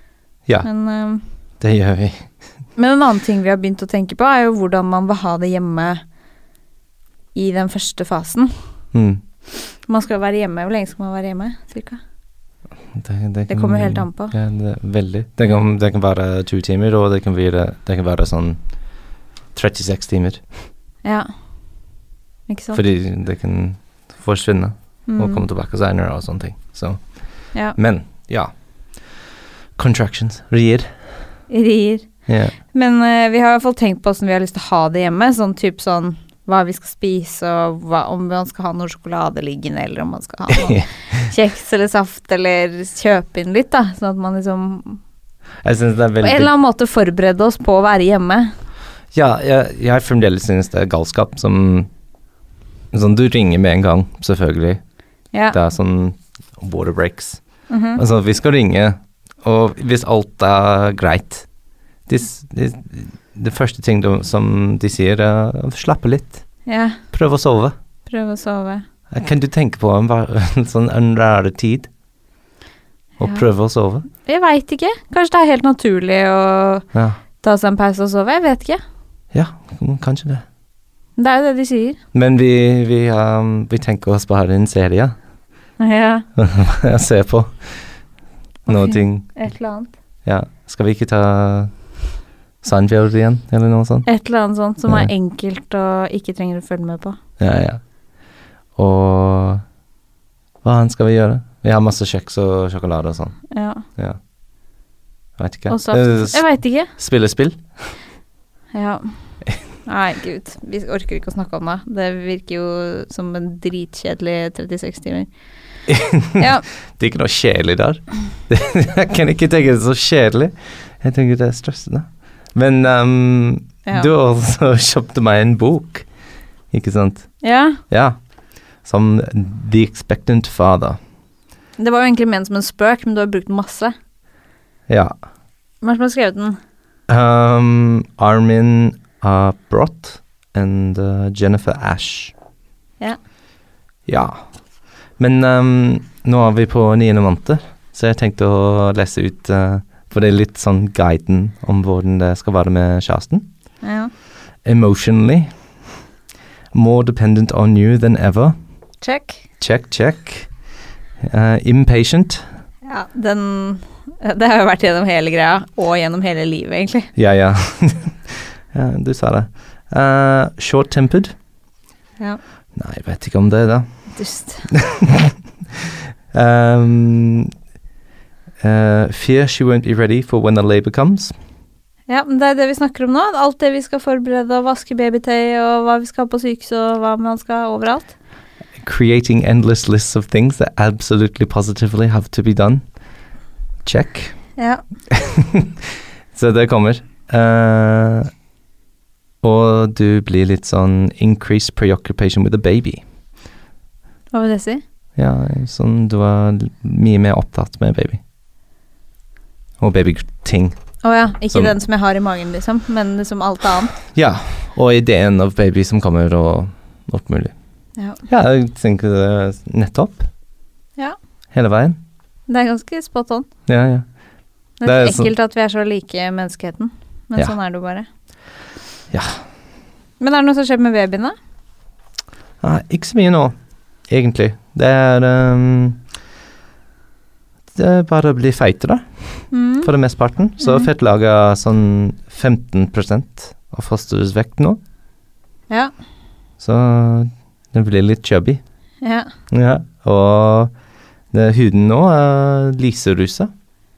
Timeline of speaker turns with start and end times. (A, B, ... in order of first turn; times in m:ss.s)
0:00.6-0:01.2 A
0:01.6-0:02.3 B
0:02.8-0:06.0 A
0:07.3-0:08.5 A
0:08.9-0:09.2 B
0:09.5-0:12.0 A
0:12.9-0:19.0 B
0:13.5-0:14.3 A
0:19.5-0:20.4 B
0:22.5-0:22.8 A
0:22.7-0:29.2 B
0:25.1-0:25.4 A
0:29.8-0:31.0 B
0:31.5-0:32.1 A
0:32.3-0:32.5 B
0:32.7-0:45.0 A
0:40.5-0:41.2 B
0:45.6-0:46.5 B
0:46.2-0:48.5 A
0:49.1-0:51.9 B
0:52.9-0:54.8 B
0:55.3-0:55.6 A
0:55.5-1:01.5 B
0:57.7-0:58.0 A
1:02.0-1:06.5 B
1:06.6-1:07.0 A
1:07.1-1:07.7 B
1:08.0-1:08.8 A
1:09.1-1:11.9 B
1:13.2-1:14.1 B
1:14.2-1:16.9 A
1:16.9-1:17.2 B
1:17.4-1:18.8 A
1:19.3-1:20.4 B
1:21.2-1:22.0 A
1:22.1-1:25.1 B
1:25.8-1:26.2 A
1:26.4-1:28.0 B
1:28.6-1:29.3 B
1:28.7-1:29.9 A
1:30.2-1:31.8 B
1:32.6-1:34.1 B
1:34.0-1:37.2 A
1:34.8-1:35.1 B
1:37.4-1:37.8 B
1:38.8-1:39.6 B
1:40.6-1:43.4 B
1:43.5-1:43.8 A
1:45.4-1:47.6 B
1:45.7-1:46.9 A
1:48.7-1:55.3 A
1:55.9-2:06.1 B
1:56.4-1:56.6 A
2:03.8-2:04.1 A
2:06.7-2:11.0 B
2:07.4-2:07.8 A
2:11.8-2:13.9 A
2:14.9-2:15.1 B
2:15.8-2:16.6 A
2:17.1-2:22.3 B
2:24.0-2:24.5 B
2:25.2-2:33.5 B
2:33.8-2:34.1 A
2:34.6-2:35.5 B
2:36.7-2:38.5 B
2:39.0-2:39.4 A
2:39.6-2:40.5 B
2:41.2-2:42.4 B
2:42.8-2:47.1 A
2:47.1-2:51.4 B
2:52.7-2:53.9 B
2:54.1-2:54.7 A
2:54.7-2:55.4 B
2:56.3-2:57.5 B
2:58.6-3:01.3 B
3:02.1-3:08.1 A
3:08.8-3:12.8 B
3:13.8-3:14.4 B
3:14.6-3:14.8 A
3:15.2-3:15.6 B
3:16.3-3:18.3 B
3:19.4-3:23.0 B
3:24.3-3:24.8 A
3:25.2-3:28.2 B
3:29.8-3:30.8 B
3:31.0-3:34.0 A
3:31.5-3:31.7 B
3:34.1-3:37.5 B
3:38.0-3:38.2 A
3:38.2-3:40.3 B
3:41.5-3:42.0 B
3:42.5-3:43.5 A
3:43.7-3:44.1 B
3:44.8-3:48.0 A
3:44.8-3:45.3 B
3:49.1-3:49.4 B
3:50.2-3:51.3 A
3:52.6-3:56.0 B
3:57.7-4:04.8 B
3:59.5-3:59.9 A
4:00.6-4:00.9 A
4:06.6-4:08.6 B
4:09.0-4:09.3 A
4:09.5-4:10.7 B
4:11.3-4:13.5 B